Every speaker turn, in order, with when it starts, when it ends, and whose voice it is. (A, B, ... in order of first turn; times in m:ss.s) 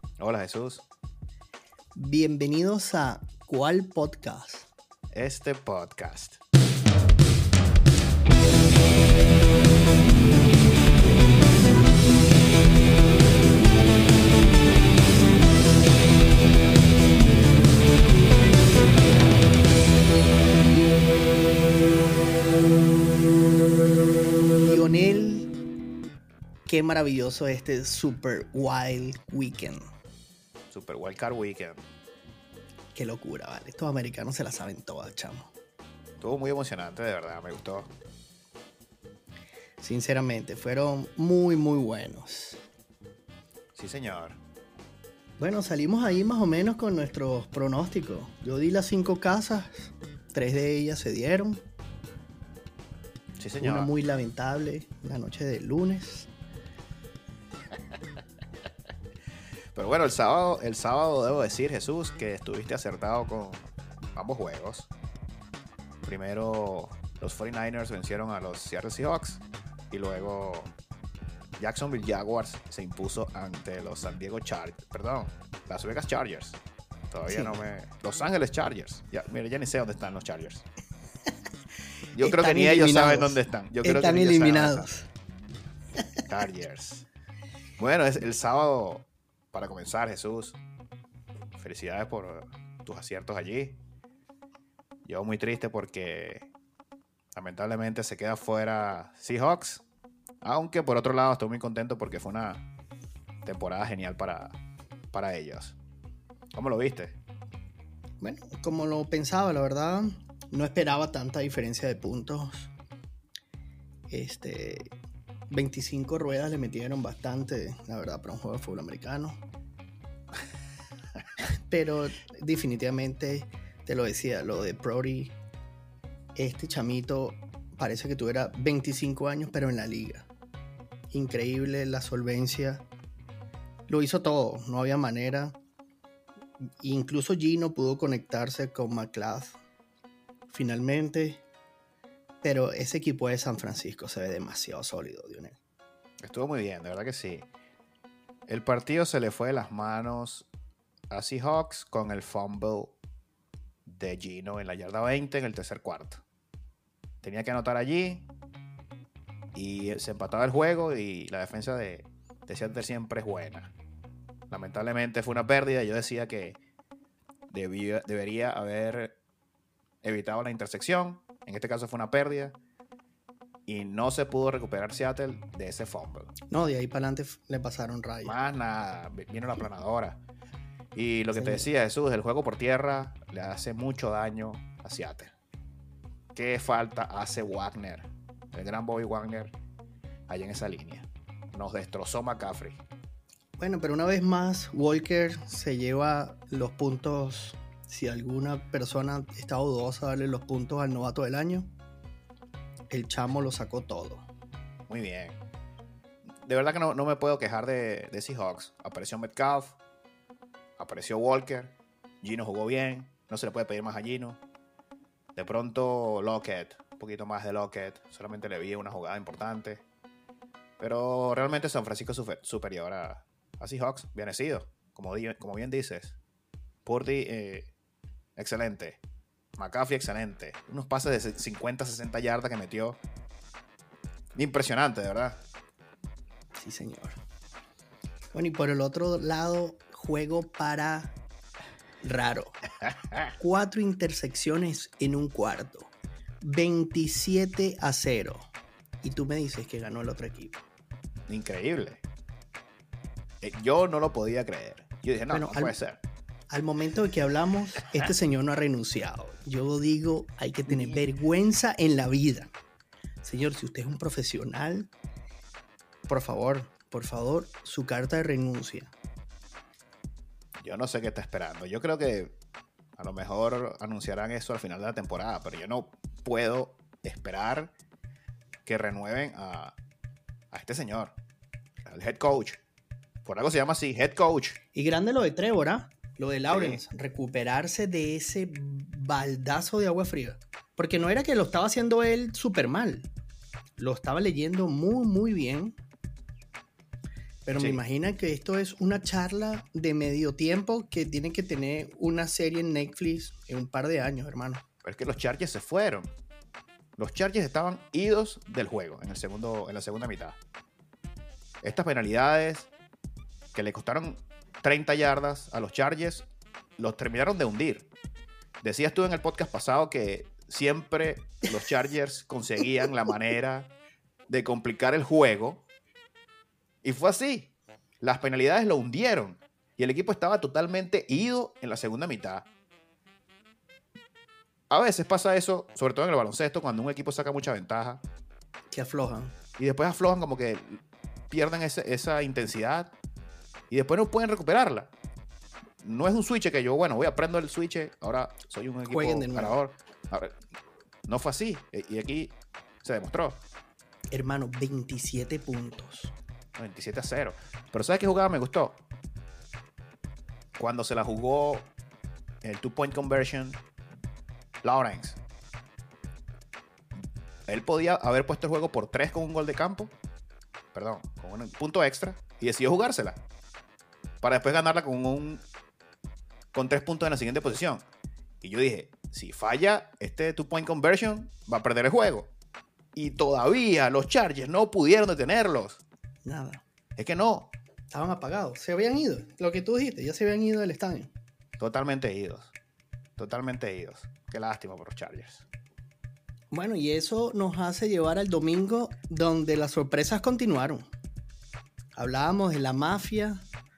0:00.2-0:00.8 A
0:02.0-0:04.7 B
0:05.1-0:06.4 A
0:24.6-0:25.5 B
0:26.7-0:29.8 B
0:30.7-0:31.8 A
0:33.0-0:35.5 B
0:36.2-0:37.9 A
0:39.8-0:42.6 B
0:43.8-0:44.4 A
0:45.4-0:51.6 B
0:53.4-0:53.9 A
0:53.6-0:56.3 B
0:59.7-1:04.9 A
1:06.0-1:10.7 A
1:11.6-1:16.6 A
1:17.1-1:20.7 A
1:17.3-1:17.6 B
1:22.1-1:24.9 A
1:22.2-1:25.1 B
1:26.3-1:27.1 A
1:27.8-1:30.6 A
1:31.6-1:33.8 A
1:35.0-1:36.5 A
1:37.3-1:39.8 A
1:40.4-1:42.6 A
1:43.4-1:44.6 A
1:45.1-1:45.8 A
1:46.5-1:47.2 A
1:48.2-1:52.7 B
1:54.1-1:54.9 B
1:55.5-1:59.4 B
2:01.4-2:05.3 B
2:06.4-2:10.3 B
2:11.1-2:12.8 B
2:13.9-2:15.6 B
2:16.8-2:19.6 B
2:20.5-2:21.4 B
2:22.4-2:25.6 B
2:26.2-2:27.5 A
2:28.5-2:30.5 A
2:31.1-2:32.9 A
2:33.8-2:36.2 A
2:37.2-2:38.3 A
2:39.5-2:43.7 A
2:44.5-2:46.6 A
2:47.5-2:49.2 A
2:50.0-2:52.5 A
2:53.6-2:56.3 A
2:56.5-2:58.3 B
2:58.2-3:00.2 A
3:00.9-3:05.3 A
3:01.3-3:01.7 B
3:06.3-3:09.5 A
3:10.3-3:12.8 A
3:13.6-3:21.7 B
3:22.9-3:24.2 B
3:24.9-3:25.4 A
3:26.4-3:29.8 A
3:30.8-3:34.4 A
3:35.4-3:39.8 A
3:40.8-3:46.2 A
3:46.8-3:47.7 A
3:48.4-3:49.0 A
3:49.6-3:53.0 A
3:54.3-3:55.4 A
3:56.5-3:57.2 B
3:58.3-4:01.2 B
4:02.0-4:02.6 B
4:02.8-4:03.3 A
4:03.4-4:08.5 B
4:09.0-4:10.6 B
4:11.3-4:12.0 A
4:13.4-4:16.0 A
4:15.3-4:15.8 B
4:16.5-4:22.5 B
4:20.7-4:21.0 A
4:23.2-4:24.9 B
4:26.1-4:28.9 B
4:30.6-4:32.3 A
4:33.0-4:37.7 A
4:38.6-4:39.8 A
4:40.5-4:41.1 A
4:41.8-4:42.6 A
4:43.2-4:44.6 A
4:44.7-4:53.1 B
4:46.5-4:46.8 A
4:53.8-4:55.8 B
4:57.4-5:04.6 B
5:04.8-5:06.1 A
5:07.0-5:10.4 A
5:11.6-5:12.7 A
5:13.5-5:16.3 A
5:16.8-5:17.9 A
5:18.6-5:23.7 A
5:24.3-5:25.6 A
5:26.8-5:32.5 A
5:34.7-5:38.0 A
5:38.7-5:39.3 B
5:39.6-5:42.9 A
5:43.7-5:44.9 A
5:45.8-5:50.4 A
5:48.9-5:49.6 B
5:51.1-5:53.4 A
5:54.1-5:56.1 B
5:56.6-5:58.8 A
6:00.6-6:01.7 A
6:02.4-6:03.6 A
6:04.6-6:05.2 A
6:07.5-6:09.9 A
6:10.7-6:13.2 A
6:14.2-6:15.4 A
6:16.5-6:17.8 A
6:18.4-6:22.3 A
6:22.9-6:25.8 A
6:26.2-6:26.6 B
6:27.0-6:27.5 A
6:27.9-6:31.1 B
6:31.6-6:32.5 A
6:33.2-6:35.4 A
6:36.5-6:40.9 B
6:42.0-6:43.4 B